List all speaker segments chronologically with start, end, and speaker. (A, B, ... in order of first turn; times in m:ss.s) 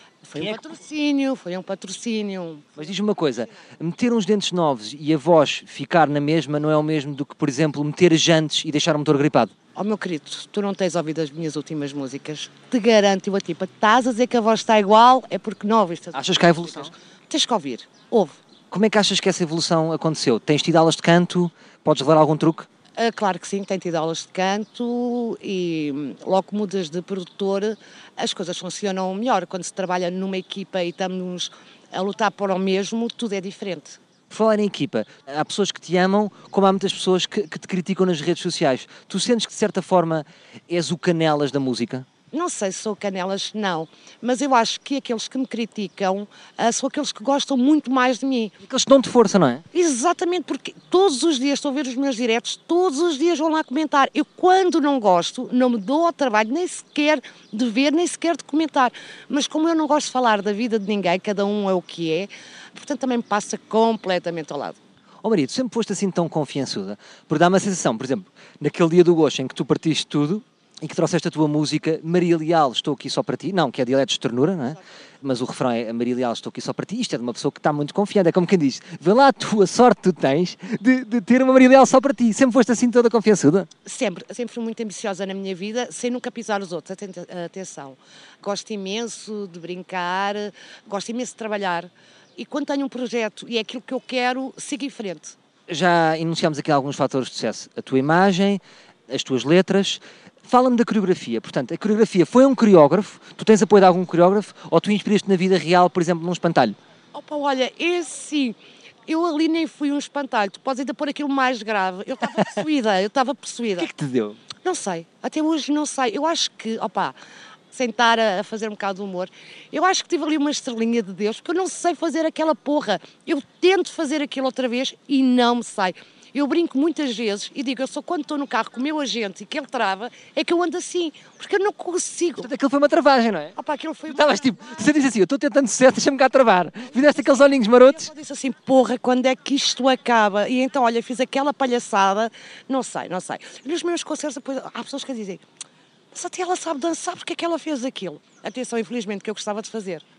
0:00.2-0:02.9 A
0:00.4-0:00.6 B
0:02.8-0:09.5 B
0:09.7-0:18.4 A
0:16.1-0:16.9 B
0:18.7-0:22.7 B
0:23.0-0:34.0 A
0:34.3-0:42.0 B
0:42.3-0:48.5 A
0:48.6-0:49.6 B
0:49.7-1:04.8 A
1:05.2-1:23.7 B
1:23.8-1:35.4 A
1:35.7-1:46.8 B
1:47.1-1:53.9 A
1:53.8-1:54.4 B
1:54.6-1:57.1 A
1:57.7-2:12.5 A
2:12.4-2:13.6 B
2:13.6-2:14.8 A
2:14.1-2:18.1 B
2:17.2-2:25.4 A
2:26.1-2:30.0 A